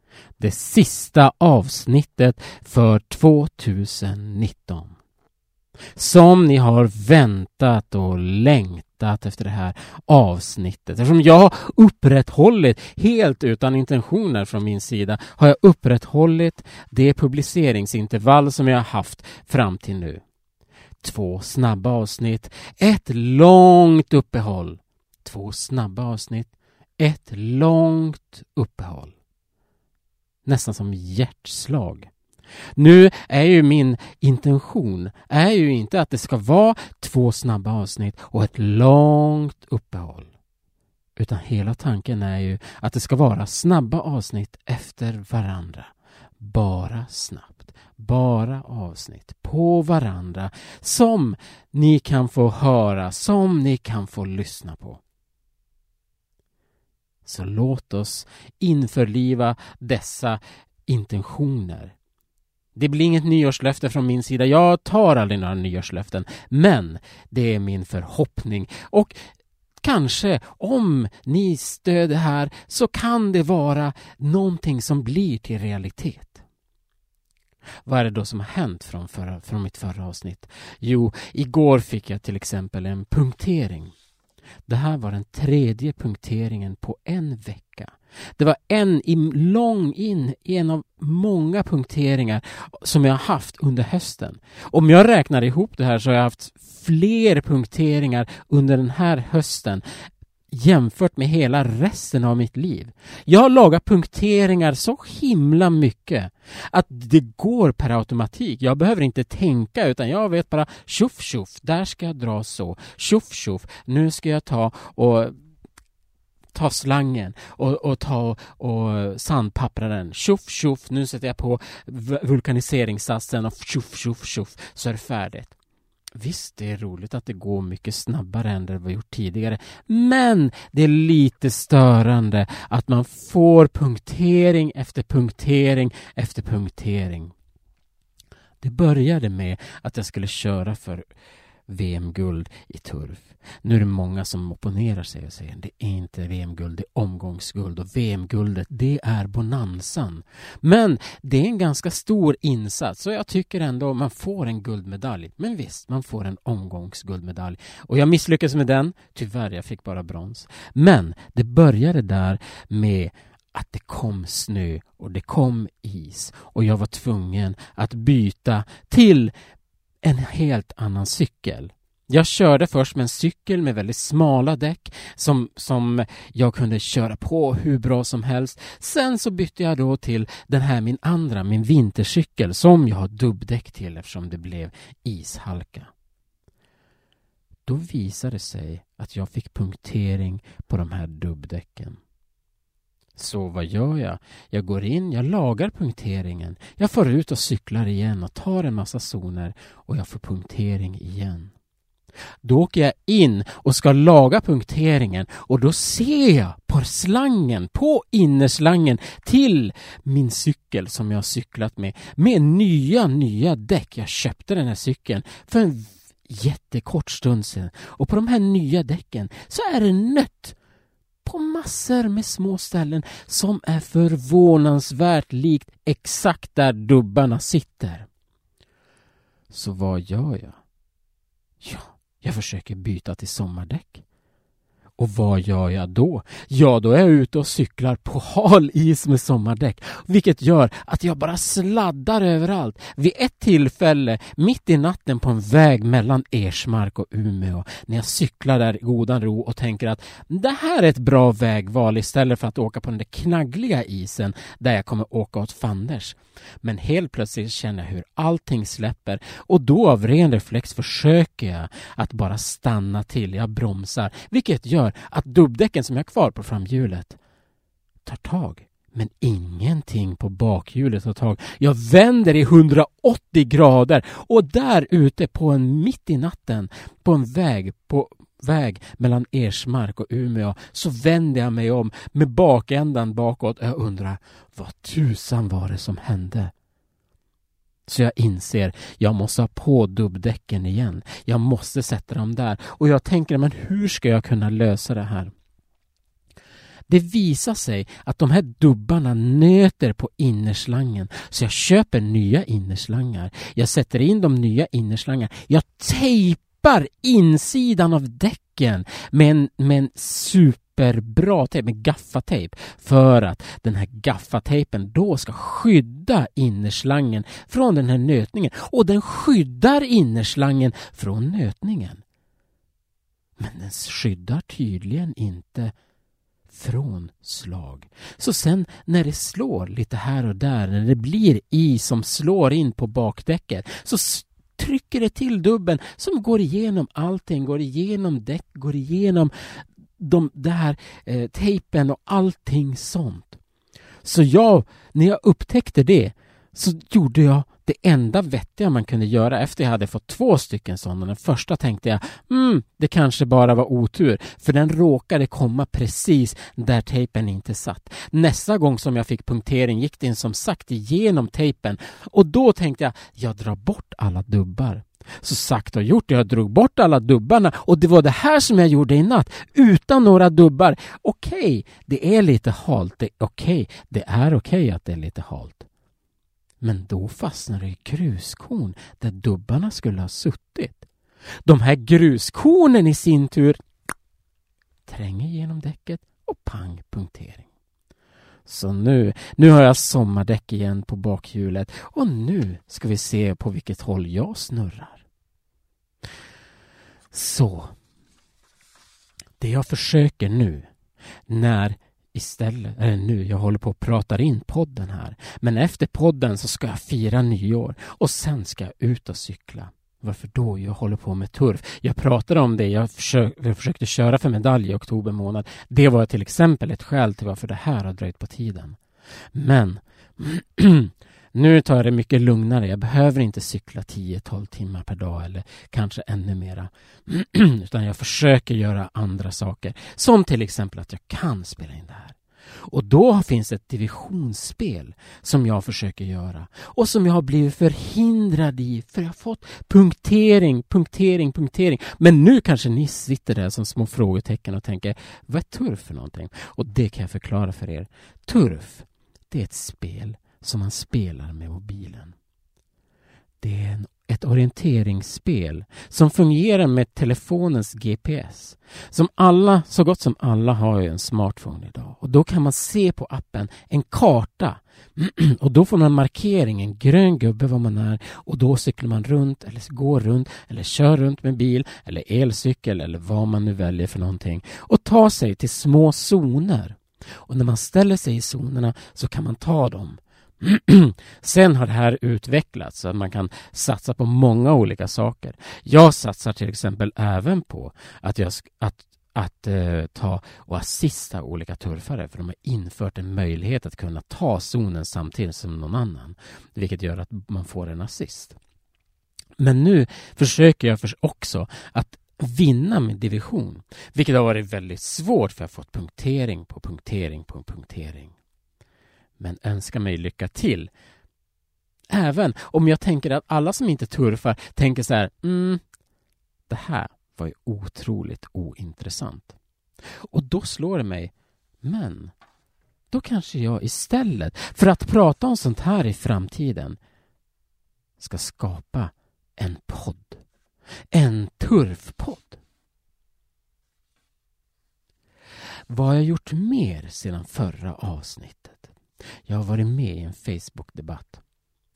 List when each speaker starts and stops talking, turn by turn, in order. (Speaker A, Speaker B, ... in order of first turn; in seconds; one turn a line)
Speaker A: 0.4-5.0
Speaker A: 6.0-20.2
Speaker A: 21.0-29.1
Speaker A: 30.4-32.1
Speaker A: 32.8-40.3
Speaker A: 41.2-55.0
Speaker A: 57.2-61.9
Speaker A: 62.8-69.1
Speaker A: 69.8-76.4
Speaker A: 77.8-83.9
Speaker A: 84.7-99.8
Speaker A: 100.5-115.3
Speaker A: 116.5-125.5
Speaker A: 126.2-137.3
Speaker A: 138.6-141.1
Speaker A: 141.7-169.3
Speaker A: 170.0-185.9
Speaker A: 187.7-192.0
Speaker A: 193.2-201.5
Speaker A: 202.4-220.6
Speaker A: 221.2-228.1
Speaker A: 229.5-230.6
Speaker A: 231.6-234.0
Speaker A: 235.0-267.2
Speaker A: 268.1-286.5
Speaker A: 287.9-295.3
Speaker A: 296.9-322.0
Speaker A: 323.4-325.7
Speaker A: 326.5-343.4
Speaker A: 344.0-375.7
Speaker A: 376.6-380.9
Speaker A: 381.5-383.6
Speaker A: 384.9-387.5
Speaker A: 388.5-395.0
Speaker A: 397.1-397.7
Speaker A: 399.4-400.7
Speaker A: 401.3-418.8
Speaker A: 419.3-452.1
Speaker A: 453.4-498.4
Speaker A: 499.4-508.1
Speaker A: 509.2-510.7
Speaker A: 511.9-515.6
Speaker A: 516.5-519.4
Speaker A: 520.1-522.1
Speaker A: 522.9-526.8
Speaker A: 528.0-530.2
Speaker A: 530.9-532.4
Speaker A: 535.7-538.7
Speaker A: 539.3-541.2